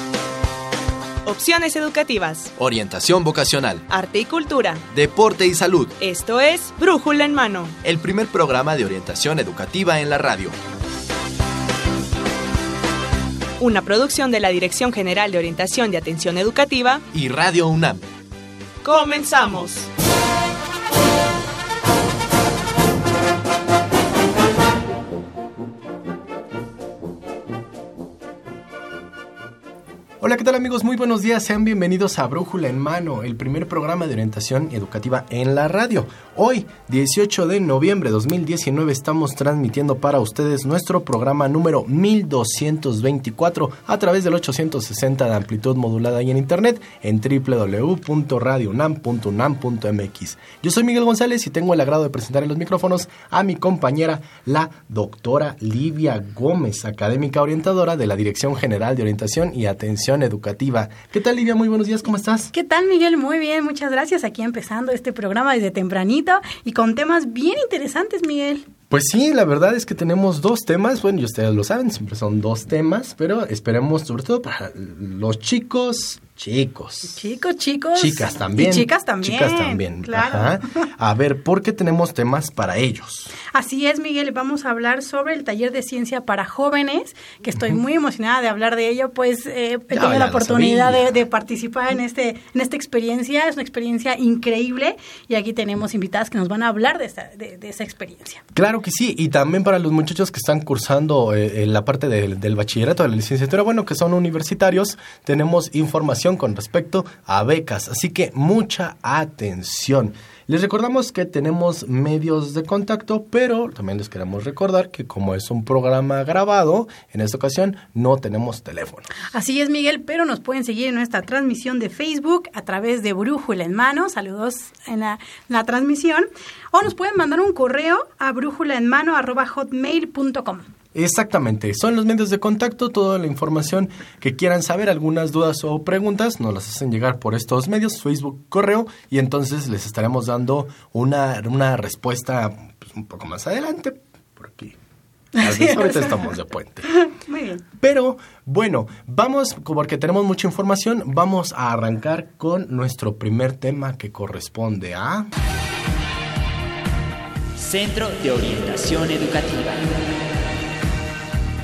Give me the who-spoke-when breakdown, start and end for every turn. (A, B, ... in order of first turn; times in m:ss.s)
0:01.2-0:02.5 A
0:02.6-0:03.9 B
0:03.9-0:04.8 A
0:04.9-0:06.0 B
0:06.0-0:07.8 A
0:07.8-0:10.6 B
0:13.6-0:17.0 A
0:17.1-0:18.0 B
0:18.8-0:19.9 A
0:30.2-1:02.5 C
1:02.5-1:08.7 D
1:08.9-1:17.2 C
1:17.1-1:20.8 D
1:18.0-1:23.3 C
1:23.5-1:38.4 D
1:29.9-1:31.1 C
1:38.6-1:59.1 C
1:59.3-2:10.7 D
2:10.9-2:24.8 C
2:25.4-2:27.0 C
2:25.4-2:26.3 D
2:26.9-2:27.6 D
2:27.8-2:35.3 C
2:37.6-2:40.0 E